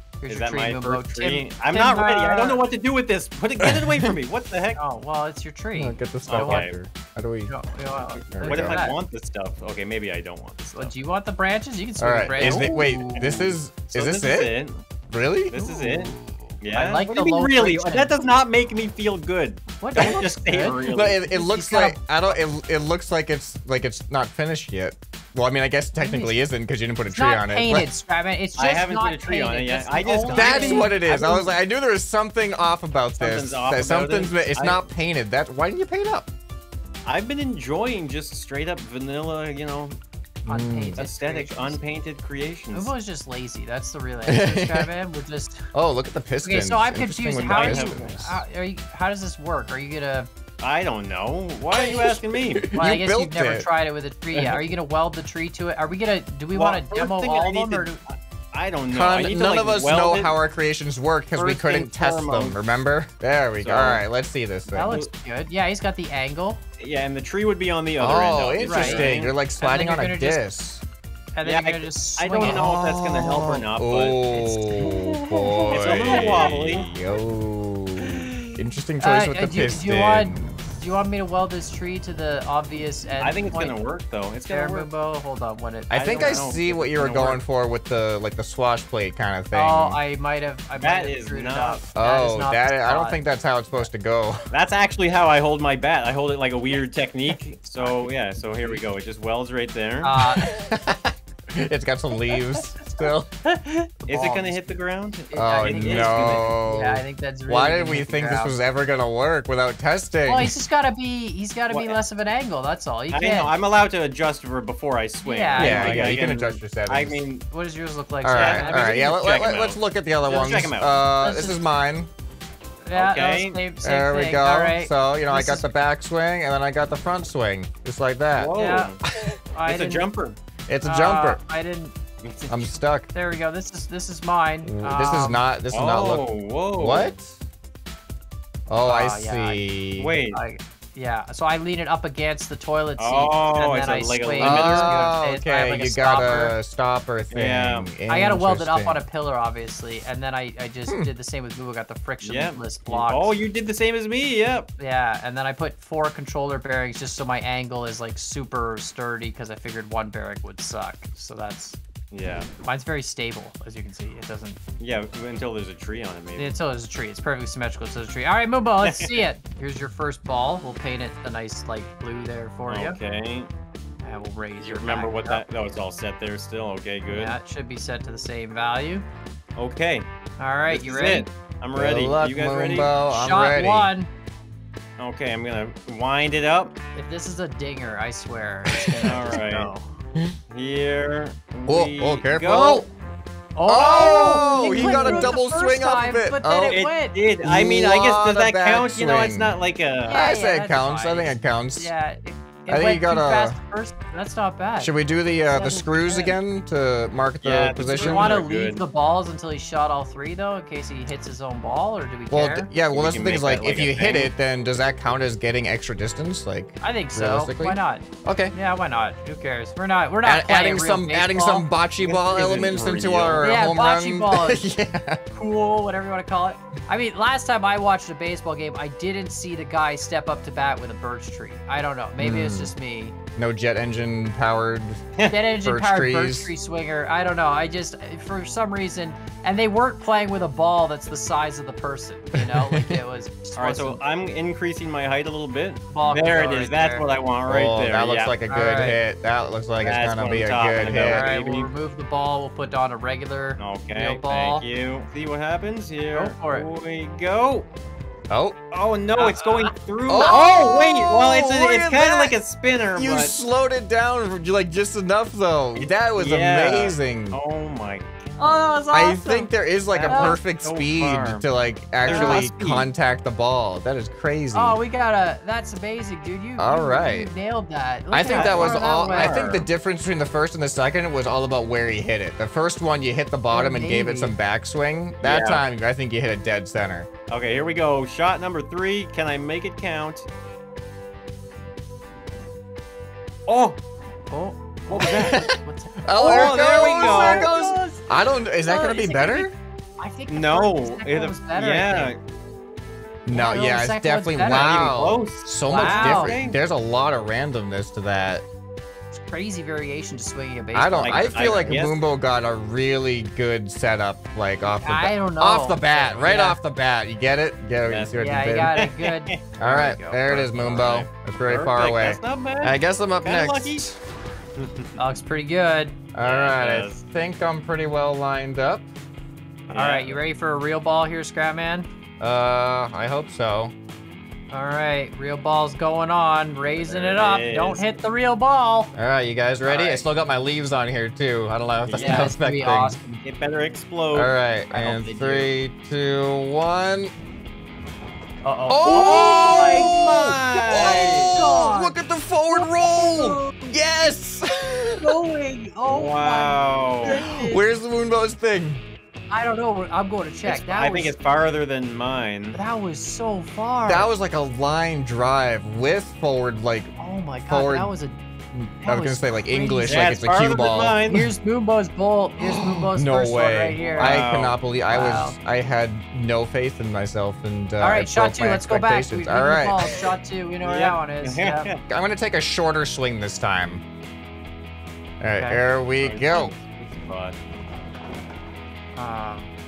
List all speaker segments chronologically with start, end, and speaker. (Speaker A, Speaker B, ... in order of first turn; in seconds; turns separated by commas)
Speaker A: 0.2-2.6, Speaker B: 0.3-4.8, Speaker A: 4.8-6.7, Speaker C: 5.8-7.5, Speaker B: 6.3-6.8, Speaker A: 7.5-9.0, Speaker C: 8.3-8.8, Speaker B: 8.3-10.9, Speaker A: 10.7-13.4, Speaker C: 12.0-14.5, Speaker B: 12.3-14.8, Speaker C: 15.1-15.6, Speaker B: 15.5-21.2, Speaker A: 15.5-18.2, Speaker A: 19.8-22.4, Speaker C: 20.9-27.9, Speaker A: 26.0-26.3, Speaker A: 27.1-31.4, Speaker B: 28.6-31.5, Speaker C: 30.3-36.3, Speaker B: 33.2-34.8, Speaker B: 37.1-40.0, Speaker C: 40.5-41.0, Speaker A: 40.5-41.8, Speaker B: 41.0-42.9, Speaker A: 42.7-45.7, Speaker C: 44.3-44.9, Speaker C: 45.7-48.4, Speaker A: 46.4-50.3, Speaker B: 47.4-48.2, Speaker B: 50.6-52.7, Speaker C: 51.7-53.7, Speaker A: 52.8-58.0, Speaker B: 56.5-60.4, Speaker C: 58.9-65.0, Speaker B: 61.4-62.6, Speaker B: 63.6-64.0, Speaker A: 64.7-66.6, Speaker B: 66.8-69.3, Speaker C: 68.0-70.8, Speaker A: 68.6-70.4, Speaker A: 71.3-72.7, Speaker B: 71.4-74.2, Speaker C: 72.4-80.6, Speaker A: 74.3-76.9, Speaker B: 75.7-76.9, Speaker A: 78.0-83.8, Speaker B: 83.2-84.9, Speaker A: 84.5-86.5, Speaker C: 85.9-90.0, Speaker B: 85.9-87.4, Speaker A: 89.5-93.2, Speaker B: 90.8-91.8, Speaker C: 92.0-94.5, Speaker B: 94.5-100.1, Speaker A: 97.8-98.8, Speaker A: 100.0-100.5, Speaker C: 100.2-103.3, Speaker A: 103.5-104.7, Speaker B: 104.1-106.5, Speaker A: 105.3-108.6, Speaker C: 105.4-110.5, Speaker A: 110.2-113.5, Speaker B: 111.7-112.0, Speaker B: 113.1-117.5, Speaker A: 115.2-116.1, Speaker C: 115.5-117.2, Speaker A: 117.5-119.0, Speaker C: 118.2-122.1, Speaker B: 118.3-121.0, Speaker A: 121.2-121.6, Speaker A: 122.9-125.6, Speaker B: 122.9-123.6, Speaker C: 123.8-128.6, Speaker B: 128.4-129.0, Speaker A: 128.6-128.9, Speaker C: 129.1-129.4, Speaker A: 129.5-130.1, Speaker B: 129.7-130.4, Speaker C: 130.7-131.4, Speaker A: 130.8-135.4, Speaker B: 132.2-132.5, Speaker C: 132.5-133.1, Speaker C: 134.6-137.3, Speaker B: 135.7-137.1, Speaker C: 138.7-140.2, Speaker A: 138.8-139.6, Speaker B: 140.0-140.4, Speaker A: 140.3-146.6, Speaker B: 143.0-145.0, Speaker C: 144.4-149.0, Speaker B: 147.3-147.9, Speaker A: 148.1-153.3, Speaker B: 152.2-154.7, Speaker A: 154.8-161.8, Speaker B: 162.1-162.5, Speaker A: 162.6-164.6, Speaker B: 164.8-166.6, Speaker A: 166.4-173.0, Speaker B: 168.8-169.2, Speaker B: 172.7-173.5, Speaker A: 174.0-175.4, Speaker B: 174.6-177.3, Speaker A: 177.1-179.1, Speaker B: 179.6-180.1, Speaker A: 180.4-181.3, Speaker B: 180.7-182.9, Speaker C: 181.7-183.9, Speaker A: 183.1-184.1, Speaker B: 185.0-186.8, Speaker A: 186.9-189.9, Speaker C: 188.7-189.4, Speaker B: 189.1-189.7, Speaker B: 190.5-192.9, Speaker C: 191.7-192.9, Speaker A: 193.6-197.2, Speaker C: 193.7-196.8, Speaker B: 193.8-195.3, Speaker B: 196.7-200.2, Speaker C: 197.4-199.6, Speaker A: 200.1-204.9, Speaker C: 200.1-201.9, Speaker C: 202.7-203.6, Speaker C: 204.8-208.4, Speaker A: 205.5-206.4, Speaker B: 207.4-208.8, Speaker A: 208.0-212.7, Speaker C: 212.3-218.5, Speaker B: 212.9-214.3, Speaker A: 216.8-221.7, Speaker C: 220.2-225.2, Speaker B: 222.0-223.5, Speaker A: 223.4-224.7, Speaker A: 225.3-233.1, Speaker C: 232.2-232.7, Speaker C: 233.4-235.1, Speaker A: 235.3-244.0, Speaker C: 235.6-236.5, Speaker C: 242.4-243.0, Speaker B: 243.6-248.4, Speaker A: 245.9-247.1, Speaker C: 247.5-251.3, Speaker A: 248.5-249.0, Speaker B: 249.8-251.7, Speaker A: 250.9-254.6, Speaker B: 253.6-257.7, Speaker A: 256.1-256.7, Speaker C: 258.3-258.6, Speaker B: 258.7-263.4, Speaker A: 259.1-260.5, Speaker C: 260.1-262.4, Speaker C: 262.9-267.4, Speaker B: 265.8-268.3, Speaker A: 268.4-269.5, Speaker C: 268.9-274.8, Speaker B: 269.9-271.4, Speaker A: 270.1-270.4, Speaker B: 272.0-272.9, Speaker A: 272.1-272.5, Speaker A: 274.5-279.6, Speaker C: 276.6-277.3, Speaker C: 278.1-287.1, Speaker B: 278.2-279.7, Speaker A: 283.5-284.4, Speaker B: 285.2-285.6, Speaker B: 287.3-290.3, Speaker B: 293.5-293.8, Speaker A: 294.3-302.1, Speaker B: 294.9-295.4, Speaker C: 295.0-299.5, Speaker B: 296.2-297.5, Speaker B: 300.3-302.2, Speaker C: 303.2-308.4, Speaker A: 303.3-304.8, Speaker B: 304.4-306.6, Speaker A: 305.7-306.4, Speaker A: 309.1-311.7, Speaker C: 310.7-318.8, Speaker B: 311.0-312.0, Speaker A: 314.8-316.6, Speaker B: 317.9-318.2, Speaker A: 318.2-320.3, Speaker B: 318.7-319.7, Speaker C: 319.6-324.0, Speaker B: 320.2-323.9, Speaker B: 324.6-324.9, Speaker A: 325.0-326.0, Speaker C: 326.1-328.9, Speaker B: 326.2-327.0, Speaker B: 329.7-330.2, Speaker A: 329.7-331.9, Speaker C: 332.2-333.7, Speaker A: 334.5-338.9, Speaker B: 336.8-338.0, Speaker C: 339.0-343.0, Speaker B: 339.6-340.0, Speaker B: 341.9-342.3, Speaker A: 341.9-343.2, Speaker B: 343.2-344.3, Speaker C: 344.1-347.1, Speaker A: 344.7-345.5, Speaker A: 348.4-352.0, Speaker C: 348.7-355.1, Speaker B: 348.9-351.4, Speaker A: 352.5-353.8, Speaker A: 355.0-357.6, Speaker B: 355.9-357.2, Speaker C: 357.1-358.8, Speaker A: 359.3-361.1, Speaker B: 360.4-362.6, Speaker A: 362.5-364.1, Speaker C: 363.9-366.9, Speaker A: 367.0-368.2, Speaker C: 367.5-367.9, Speaker C: 368.5-371.0, Speaker A: 368.8-370.1, Speaker B: 369.9-371.3, Speaker A: 371.1-374.2, Speaker C: 372.4-380.0, Speaker B: 373.8-374.6, Speaker A: 374.9-375.4, Speaker A: 377.8-381.7, Speaker B: 380.6-381.8, Speaker C: 381.9-383.8, Speaker C: 385.2-386.5, Speaker A: 385.4-385.6, Speaker B: 386.0-387.4, Speaker A: 389.0-389.5